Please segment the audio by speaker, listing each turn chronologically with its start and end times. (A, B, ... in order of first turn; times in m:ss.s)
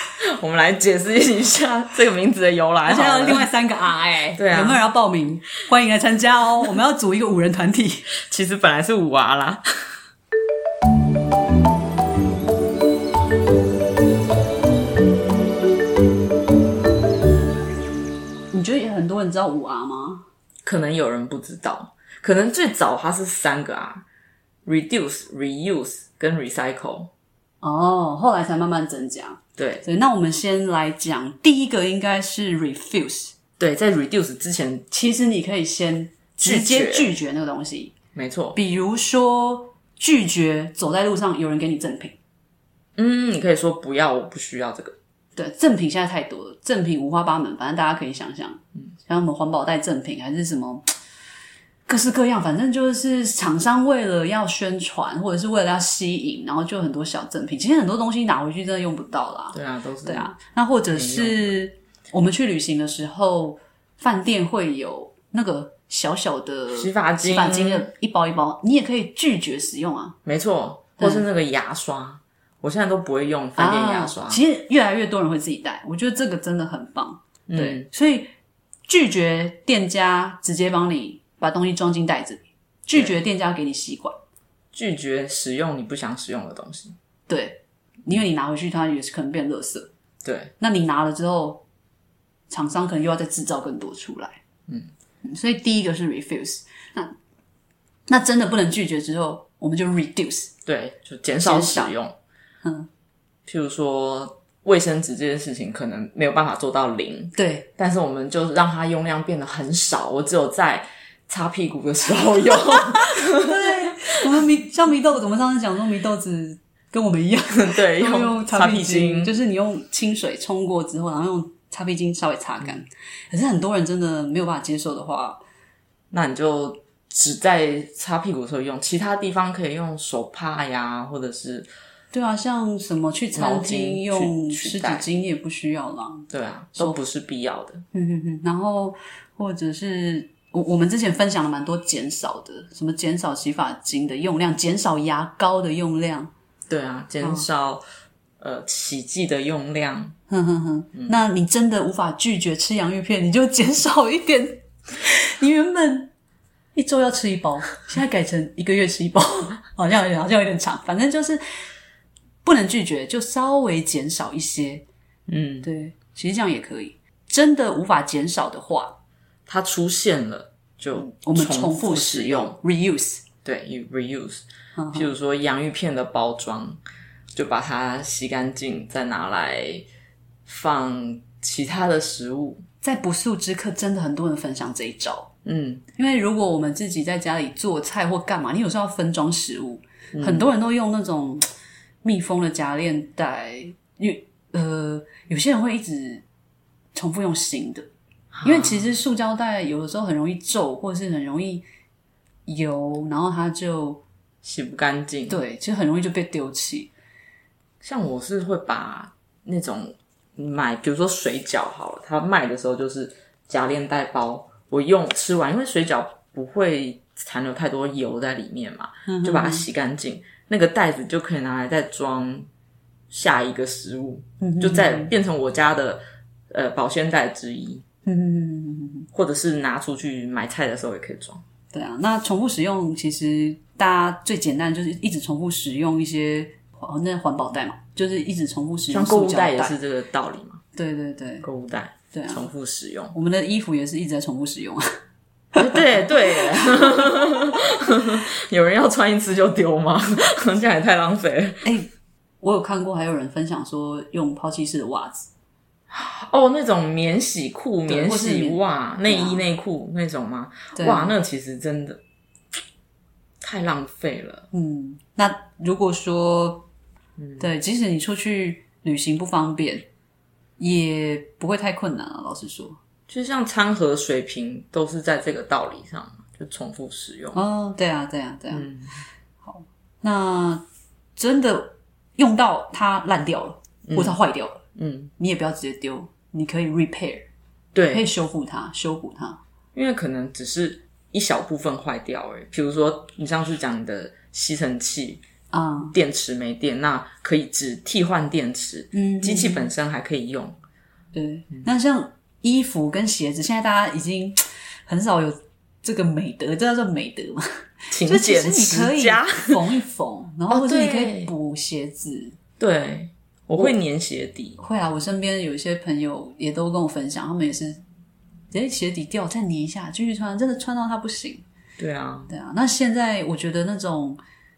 0:00.2-0:03.5 A
0:02.8-0:08.1 B
0:04.4-0:04.8 A
0:08.2-0:09.6 A
0:18.5-0:20.2 B
0:20.6-0:24.0 A
0:24.6-0:27.1 A
0:27.6-0:33.3 B
0:29.6-0:29.8 A
0:33.6-0:34.8 A
0:34.9-0:37.9 B
0:36.4-0:37.1 A
0:38.1-0:38.6 A
0:38.5-0:42.2 B
0:43.0-0:44.9 A
0:45.4-0:50.9 B
0:51.9-1:10.2 B
0:59.5-1:00.3 A
1:00.9-1:01.5 A
1:06.7-1:07.9 A
1:10.2-1:14.4 A
1:11.0-1:11.2 B
1:13.6-1:18.3 B
1:17.5-1:17.9 A
1:18.9-1:24.2 B
1:24.7-1:26.9 A
1:27.3-1:29.9 B
1:30.2-1:30.5 A
1:30.6-1:31.6 B
1:32.5-1:34.4 B
1:35.2-1:37.1 B
1:38.1-1:40.5 B
1:40.6-1:42.2 A
1:41.4-1:41.9 B
1:42.6-1:42.9 B
1:43.4-1:54.1 A
1:47.4-1:47.7 B
1:52.9-2:05.4 B
1:57.5-1:59.3 A
2:06.1-2:11.7 A
2:12.1-2:17.0 B
2:13.3-2:15.0 A
2:16.3-2:17.8 A
2:17.9-2:26.3 B
2:26.7-2:27.8 A
2:28.4-2:30.1 A
2:30.3-2:36.1 B
2:36.7-2:41.4 B
2:42.4-2:44.8 B
2:45.3-2:45.7 A
2:45.6-2:49.0 B
2:49.5-2:52.6 A
2:51.0-2:53.2 B
2:53.4-2:56.8 A
2:54.8-2:55.1 B
2:57.3-2:59.8 A
3:00.4-3:02.6 A
3:02.8-3:05.3 B
3:05.4-3:05.8 A
3:05.9-3:11.5 B
3:10.1-3:10.5 A
3:12.0-3:16.2 B
3:16.9-3:17.8 B
3:18.3-3:18.8 A
3:18.4-3:21.6 B
3:22.4-3:24.0 B
3:24.4-3:25.4 A
3:25.3-3:26.9 B
3:27.8-3:42.5 A
3:39.1-3:39.6 B
3:43.1-3:47.8 A
3:44.4-3:45.1 B
3:48.0-3:49.1 B
3:49.1-3:51.4 A
3:51.7-3:59.8 B
3:58.9-4:00.6 A
4:00.7-4:01.4 B
4:01.4-4:03.1 A
4:02.1-4:02.5 B
4:03.1-4:04.8 B
4:05.5-4:11.7 A
4:11.6-4:11.9 B
4:12.4-4:15.3 B
4:15.9-4:22.0 A
4:17.9-4:19.4 B
4:20.7-4:21.1 B
4:23.4-4:24.5 A
4:24.5-4:26.7 B
4:27.2-4:27.4 A
4:27.4-4:29.9 B
4:30.6-4:32.8 B
4:33.1-4:37.4 A
4:37.3-4:38.7 B
4:38.5-4:38.9 A
4:39.4-4:40.6 B
4:41.2-4:44.6 B
4:43.9-4:44.2 A
4:44.8-4:45.1 A
4:45.2-4:47.2 B
4:47.7-4:48.0 A
4:47.9-4:49.4 B
4:49.7-4:55.2 A
4:55.5-4:55.9 B
4:55.9-5:00.6 A
4:58.9-4:59.7 B
5:01.1-5:07.4 B
5:07.9-5:09.6 A
5:08.0-5:12.3 B
5:10.5-5:11.3 A
5:12.6-5:14.6 A
5:14.6-5:17.8 B
5:18.5-5:21.4 B
5:21.8-5:22.3 A
5:22.3-5:24.2 B